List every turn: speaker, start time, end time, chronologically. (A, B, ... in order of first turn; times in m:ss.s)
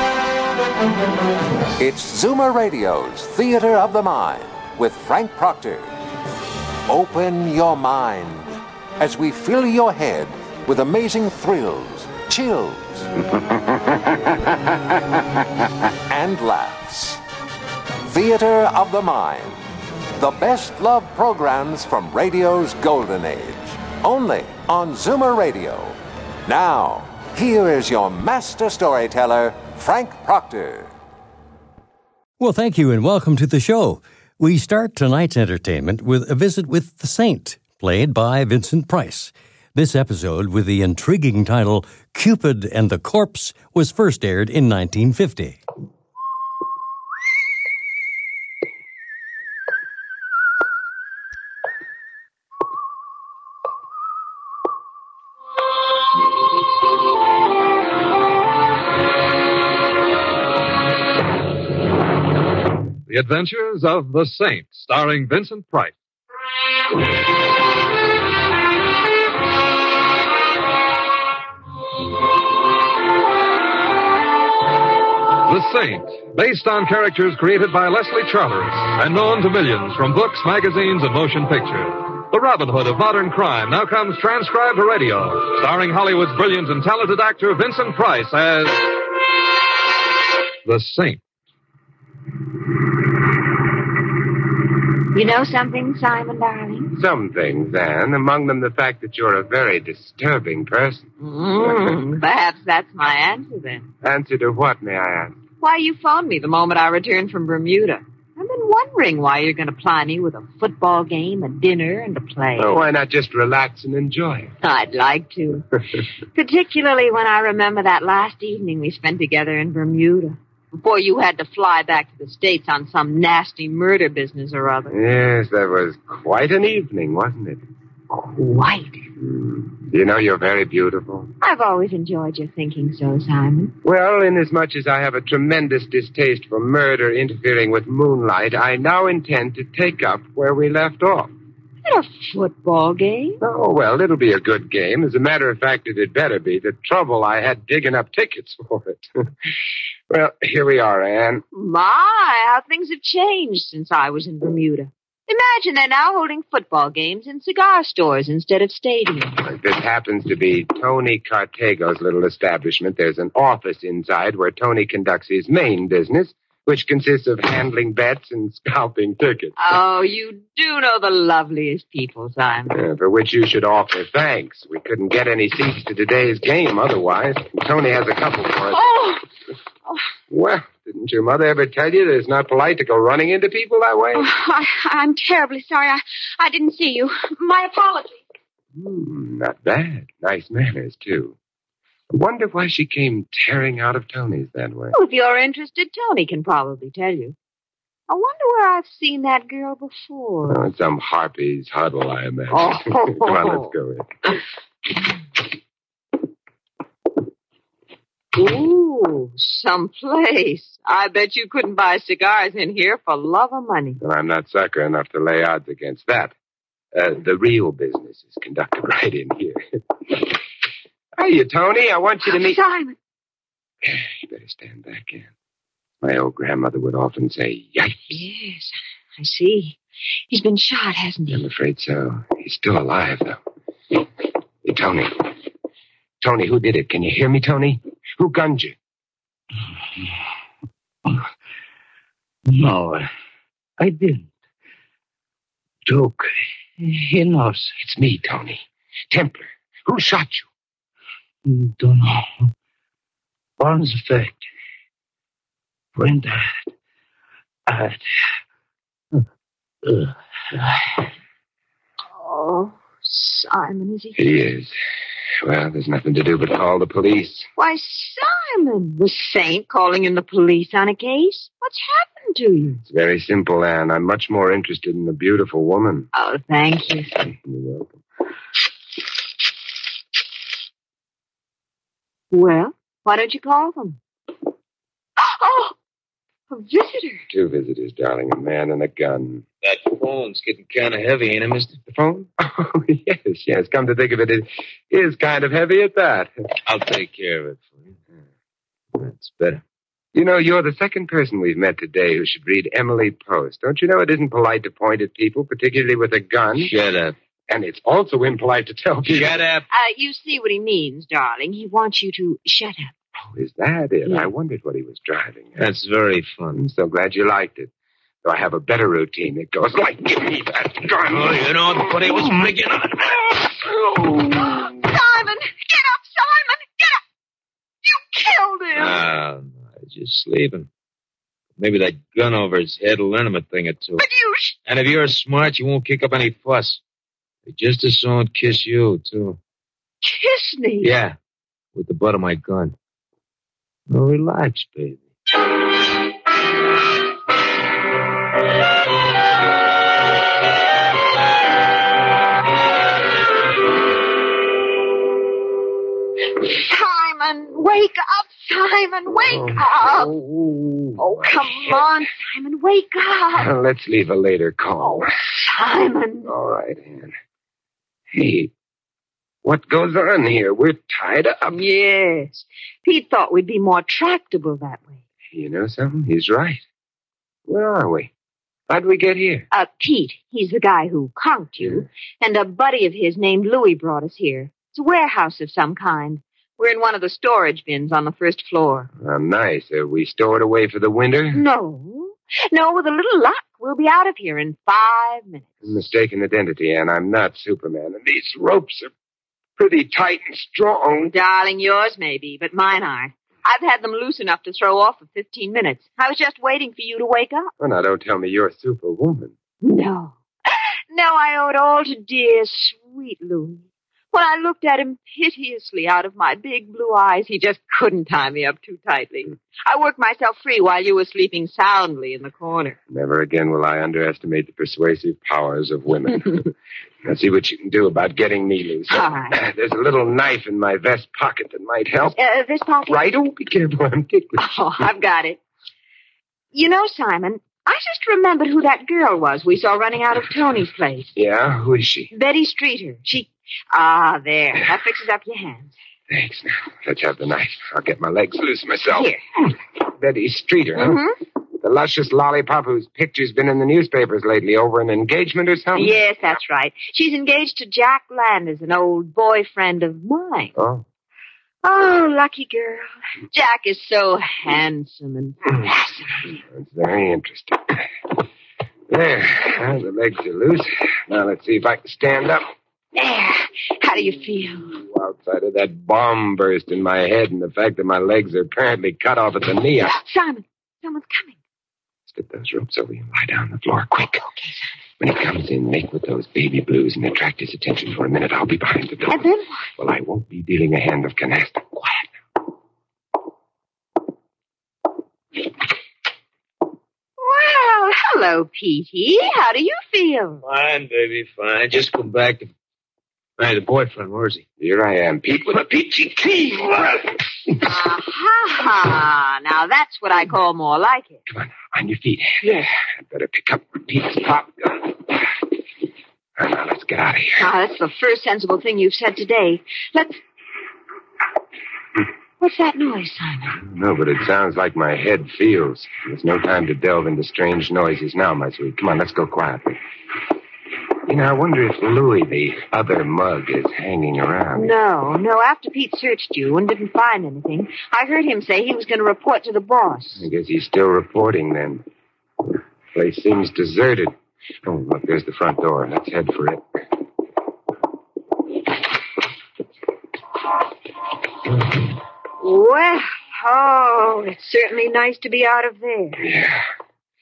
0:01.8-0:05.9 A
0:06.8-0:13.1 A
0:16.1-0:17.2 A
0:18.0-0:19.6 A
0:20.1-0:30.9 A
0:32.4-0:45.6 B
1:03.1-1:05.9 C
1:15.4-1:28.9 C
1:30.6-1:31.2 C
1:35.1-1:36.9 D
1:36.9-1:41.1 E
1:41.2-1:43.9 D
1:41.6-1:41.9 E
1:44.0-1:45.4 E
1:45.6-1:52.8 D
1:52.6-1:54.5 E
1:54.6-1:55.7 D
1:56.3-2:05.0 D
2:04.9-2:07.6 E
2:08.1-2:09.0 D
2:09.2-2:11.3 E
2:11.4-2:13.7 D
2:13.8-2:21.3 E
2:21.8-2:23.4 D
2:23.4-2:29.0 E
2:30.1-2:31.4 E
2:31.5-2:39.4 D
2:39.4-2:49.5 E
2:49.6-2:52.8 D
2:52.7-2:58.9 E
2:58.8-2:59.2 F
3:00.3-3:04.3 E
3:04.1-3:08.2 F
3:08.7-3:11.4 E
3:12.1-3:14.9 E
3:14.9-3:17.3 D
3:18.1-3:20.6 D
3:20.4-3:24.1 E
3:22.5-3:23.7 D
3:28.3-3:34.0 D
3:34.0-3:36.3 E
3:36.9-3:40.2 E
3:41.2-3:42.6 E
3:42.2-3:43.0 D
3:43.8-3:45.3 E
3:46.0-3:48.2 E
3:48.1-3:49.8 D
3:50.3-3:51.4 D
3:51.3-3:53.4 E
3:54.6-3:55.3 E
3:56.2-3:58.7 E
4:02.5-4:03.1 G
4:03.8-4:04.3 G
4:05.8-4:07.7 G
4:07.8-4:10.5 E
4:11.4-4:12.5 G
4:13.6-4:14.4 G
4:15.9-4:16.7 G
4:17.7-4:18.0 G
4:19.8-4:20.9 G
4:22.1-4:24.2 D
4:24.2-4:24.7 E
4:25.4-4:27.5 E
4:27.6-4:32.8 D
4:32.9-4:36.1 E
4:36.1-4:37.2 D
4:37.2-4:38.0 E
4:42.3-4:44.0 D
4:45.2-4:45.7 D
4:46.5-4:47.2 D
4:47.3-4:49.4 E
4:49.6-4:51.8 H
4:51.9-4:56.3 E
4:56.6-4:57.9 H
4:59.0-4:59.6 H
5:00.1-5:06.7 E
5:06.6-5:07.1 H
5:07.5-5:09.4 E
5:09.0-5:09.6 H
5:09.7-5:12.9 D
5:13.2-5:15.7 E
5:15.6-5:16.6 H
5:16.5-5:17.7 E
5:18.2-5:22.1 E
5:21.0-5:23.5 H
5:24.5-5:27.0 D
5:27.8-5:29.0 D
5:28.7-5:30.7 H
5:31.6-5:34.0 H
5:34.0-5:34.5 D
5:34.6-5:36.8 H
5:37.5-5:39.4 H
5:40.0-5:40.9 D
5:40.8-5:41.1 H
5:41.7-5:42.7 H
5:43.9-5:45.0 H
5:56.3-6:00.2 D
5:59.3-6:01.8 E
6:01.0-6:03.5 D
6:03.3-6:05.1 E
6:04.9-6:06.3 D
6:06.2-6:07.1 E
6:08.1-6:08.5 E
6:09.4-6:11.6 E
6:11.5-6:15.0 D
6:15.3-6:16.6 E
6:17.5-6:18.1 E
6:18.7-6:19.5 E
6:19.5-6:28.9 D
6:21.6-6:21.8 E
6:29.0-6:31.4 E
6:31.3-6:35.7 D
6:35.6-6:38.9 E
6:39.6-6:41.1 E
6:41.1-6:47.5 D
6:47.6-6:49.3 E
6:49.6-7:02.8 D
7:02.9-7:06.5 E
7:07.0-7:12.2 E
7:08.9-7:09.4 D
7:12.1-7:13.0 D
7:12.9-7:14.5 E
7:14.4-7:15.4 D
7:16.5-7:21.1 D
7:21.2-7:22.1 E
7:22.1-7:25.7 D
7:26.1-7:29.1 E
7:28.9-7:29.2 D
7:29.9-7:31.0 E
7:30.8-7:31.2 D
7:31.6-7:35.9 E
7:35.7-7:40.5 D
7:40.5-7:40.8 E
7:41.6-7:46.4 D
7:46.5-7:47.9 E
7:48.9-7:52.5 E
7:52.9-7:54.8 D
7:54.8-8:00.0 E
7:59.9-8:01.3 D
8:02.1-8:04.2 E
8:04.3-8:04.7 D
8:05.0-8:09.2 E
8:09.1-8:09.7 D
8:09.8-8:12.1 E
8:17.2-8:20.4 D
8:20.4-8:22.5 H
8:23.4-8:24.4 H
8:24.6-8:26.5 E
8:27.6-8:31.2 D
8:31.3-8:35.3 E
8:36.4-8:37.5 E
8:37.4-8:40.2 D
8:42.4-8:43.6 D
8:43.6-8:49.8 E
8:51.1-8:54.7 E
8:54.5-9:00.2 D
9:00.2-9:01.8 E
9:02.9-9:06.6 E
9:12.4-9:16.2 D
9:16.2-9:16.6 E